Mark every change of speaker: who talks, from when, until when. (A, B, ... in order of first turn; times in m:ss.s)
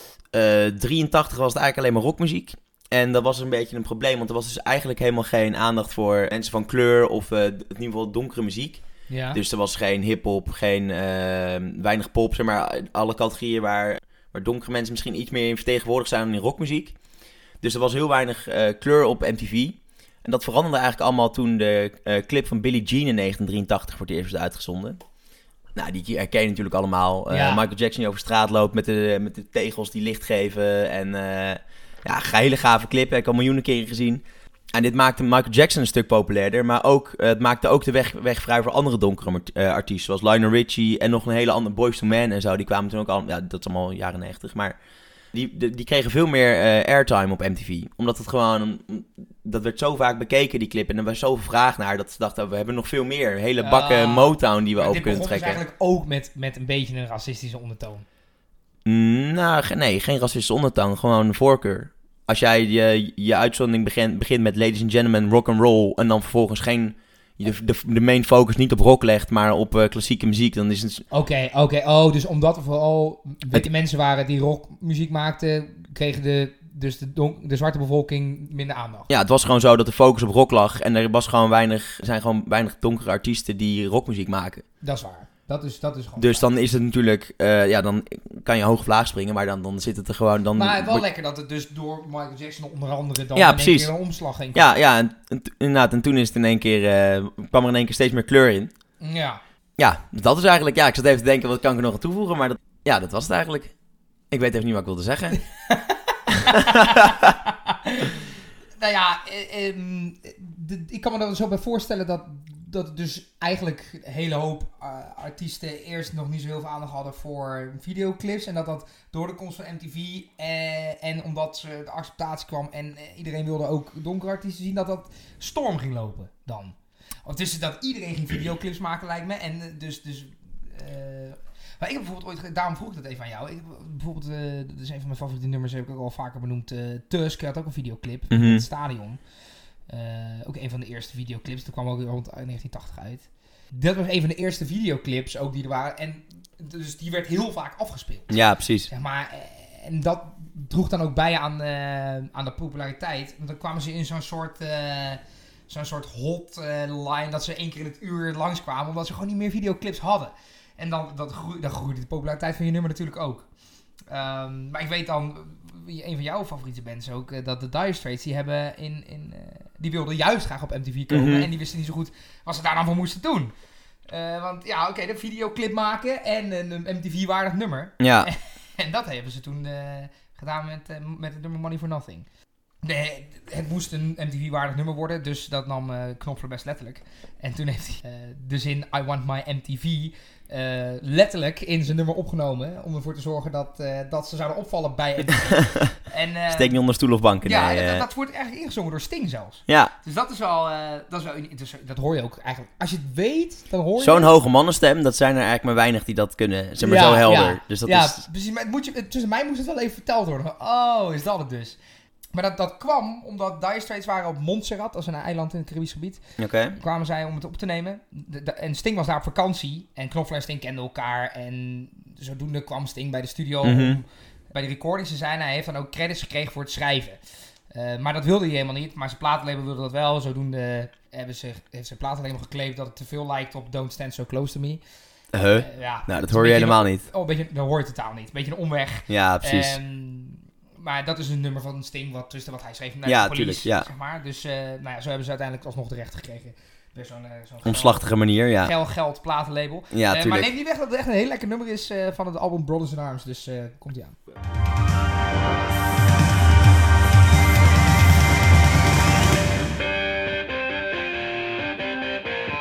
0:00.3-0:16.9 A
0:09.1-0:09.4 B
0:17.6-0:25.0 A
0:25.8-0:34.2 A
0:27.3-0:27.6 B
0:34.7-0:44.8 A
0:45.3-0:55.6 A
0:53.6-0:58.0 B
0:58.8-1:11.0 A
1:11.1-1:19.1 B
1:19.1-1:24.6 A
1:24.8-1:26.5 B
1:26.2-1:31.0 A
1:30.6-1:34.7 B
1:33.3-1:33.9 A
1:34.5-1:38.7 A
1:39.0-1:39.4 B
1:39.8-1:43.7 A
1:44.3-1:45.4 A
1:45.5-2:19.2 B
1:46.4-1:47.2 A
2:18.3-2:18.6 A
2:19.9-2:28.3 B
2:28.3-2:28.9 A
2:28.9-2:43.4 B
2:44.1-2:53.5 B
2:51.1-2:51.5 A
2:54.1-3:02.2 B
2:58.0-2:58.3 A
3:02.8-3:16.7 B
3:15.4-3:15.9 A
3:16.5-3:18.0 A
3:17.4-3:24.3 B
3:19.7-3:19.9 A
3:24.0-3:28.2 A
3:26.8-3:31.8 B
3:32.3-3:36.2 B
3:36.4-3:36.8 A
3:36.7-3:47.2 B
3:43.6-3:44.0 A
3:47.7-3:54.8 B
3:55.3-3:57.0 A
3:55.6-4:08.0 B
3:59.1-3:59.8 A
4:03.0-4:03.9 A
4:07.6-4:08.7 A
4:08.6-4:14.2 B
4:09.9-4:10.5 A